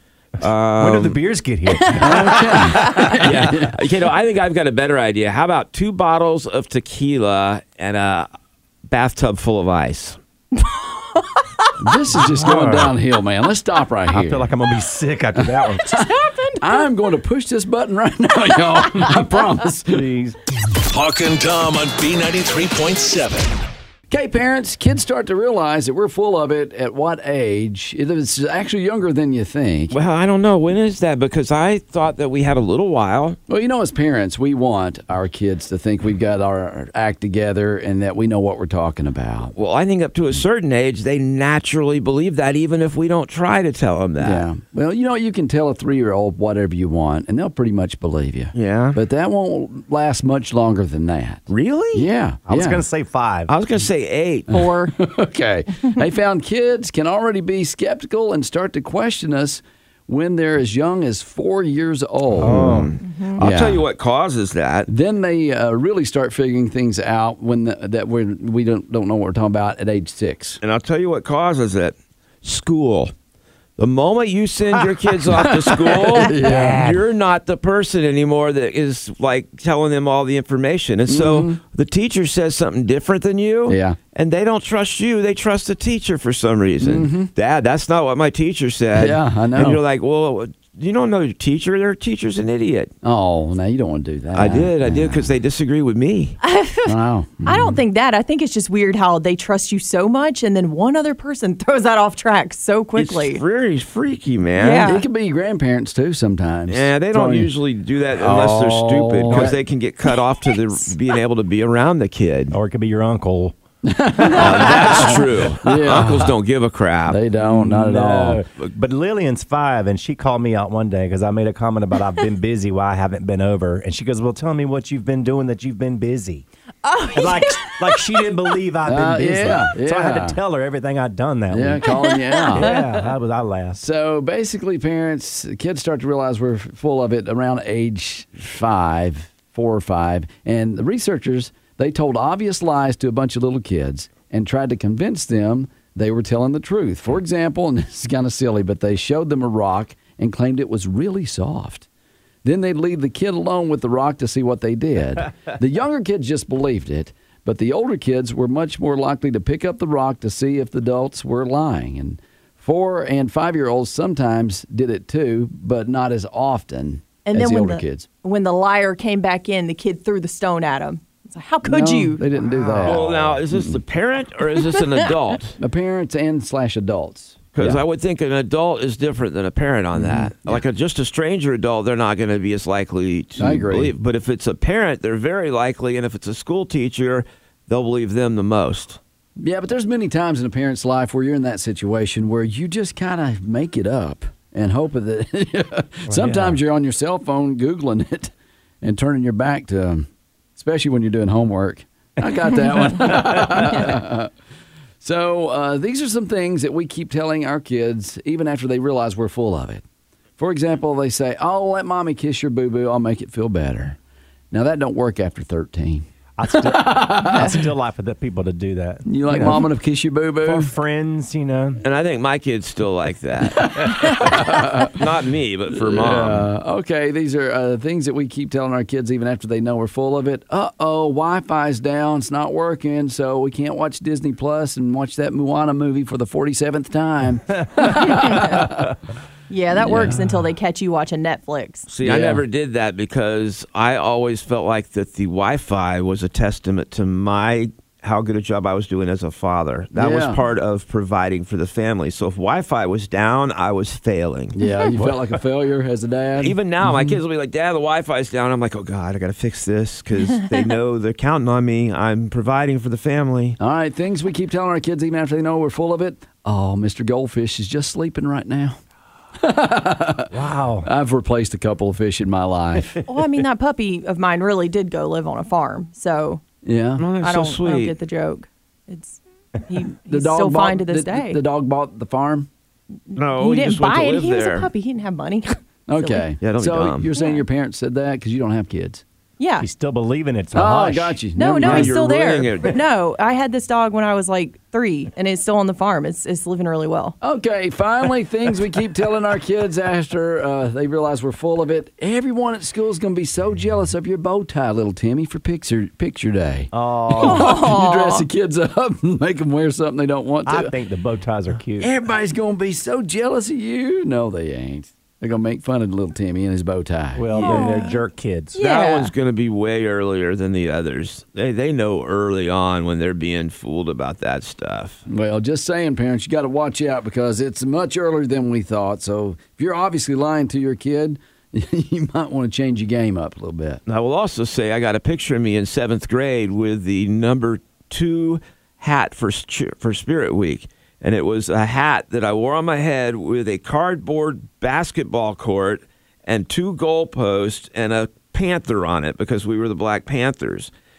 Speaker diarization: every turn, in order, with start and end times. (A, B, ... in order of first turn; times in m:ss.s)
0:00.4-0:01.2 A
0:00.8-0:03.4 B
0:01.7-0:02.0 C
0:02.0-0:03.8 D
0:03.2-0:08.3 A
0:08.9-0:10.2 A
0:10.6-0:11.7 C
0:11.8-0:14.5 D
0:12.1-0:13.0 B
0:14.1-0:16.0 B
0:15.8-0:16.9 C
0:16.6-0:20.0 D
0:19.9-0:20.4 B
0:20.9-0:23.6 E
0:24.1-0:29.9 D
0:29.9-0:33.4 A
0:33.5-0:39.5 D
0:39.6-0:44.5 A
0:44.2-0:52.8 D
0:48.5-0:49.0 A
0:51.5-0:52.1 A
0:52.5-0:53.5 B
0:53.5-0:54.7 A
0:54.5-1:02.8 D
0:54.6-0:54.9 C
1:02.4-1:03.0 B
1:02.4-1:04.9 A
1:03.0-1:03.4 C
1:03.4-1:03.8 D
1:04.9-1:10.6 D
1:10.6-1:13.1 A
1:13.8-1:32.9 A
1:15.3-1:16.8 D
1:16.4-1:17.0 B
1:21.1-1:21.6 D
1:23.7-1:24.0 D
1:26.8-1:27.3 D
1:28.9-1:29.8 D
1:33.0-1:35.3 D
1:34.3-1:36.4 A
1:36.4-1:43.4 C
1:36.9-1:37.8 D
1:43.0-1:44.9 A
1:44.6-1:45.0 C
1:44.8-1:47.5 D
1:46.7-1:52.6 A
1:48.2-1:49.6 D
1:49.3-1:49.6 B
1:52.5-1:53.6 B
1:53.8-1:56.3 D
1:54.2-1:55.3 B
1:54.4-1:57.2 A
1:57.1-1:58.4 D
1:57.4-2:06.4 B
2:06.8-2:08.2 C
2:07.1-2:11.9 B
2:08.9-2:10.4 D
2:11.5-2:12.8 D
2:11.9-2:12.8 C
2:12.5-2:13.8 B
2:13.8-2:31.9 D
2:32.4-2:48.1 D
2:47.2-2:52.2 C
2:51.6-2:53.8 D
2:52.3-2:53.4 B
2:52.8-2:55.6 A
2:55.6-2:57.8 D
2:57.5-3:09.0 A
2:59.9-3:00.6 D
3:03.4-3:03.9 D
3:09.4-3:24.3 D
3:16.1-3:16.6 B
3:22.7-3:23.9 B
3:25.0-3:29.8 D
3:30.4-3:34.0 D
3:34.5-3:37.6 D
3:36.4-3:39.6 B
3:39.0-3:40.7 D
3:40.4-3:41.8 B
3:41.8-3:46.5 A
3:43.4-3:45.0 D
3:45.7-3:58.9 D
3:57.9-3:58.5 C
3:59.5-4:01.8 C
3:59.7-4:00.4 D
4:01.9-4:14.6 A
4:02.0-4:02.4 D
4:09.9-4:10.4 D
4:14.6-4:17.2 D
4:16.4-4:23.6 A
4:23.6-4:28.8 D
4:29.4-4:30.3 D
4:30.3-4:30.9 B
4:30.8-4:33.0 D
4:33.0-4:36.4 C
4:36.6-4:37.0 D
4:37.0-4:37.9 A
4:37.2-4:41.4 C
4:40.1-4:42.5 D
4:43.1-4:46.3 C
4:43.1-4:44.7 A
4:45.9-4:49.0 D
4:46.4-4:47.1 A
4:47.2-4:47.4 C
4:49.4-4:49.7 C
4:49.6-4:51.2 B
4:50.5-4:51.9 D
4:51.4-4:57.2 C
4:51.6-4:52.8 A
4:57.2-5:10.7 D
5:06.7-5:07.6 B
5:07.2-5:08.2 C
5:10.4-5:11.9 B
5:11.8-5:17.2 D
5:17.2-5:18.6 B
5:17.3-5:17.7 A
5:17.3-5:18.0 C
5:18.5-5:19.1 C
5:18.6-5:25.0 A
5:25.1-5:33.8 D
5:33.9-5:50.7 A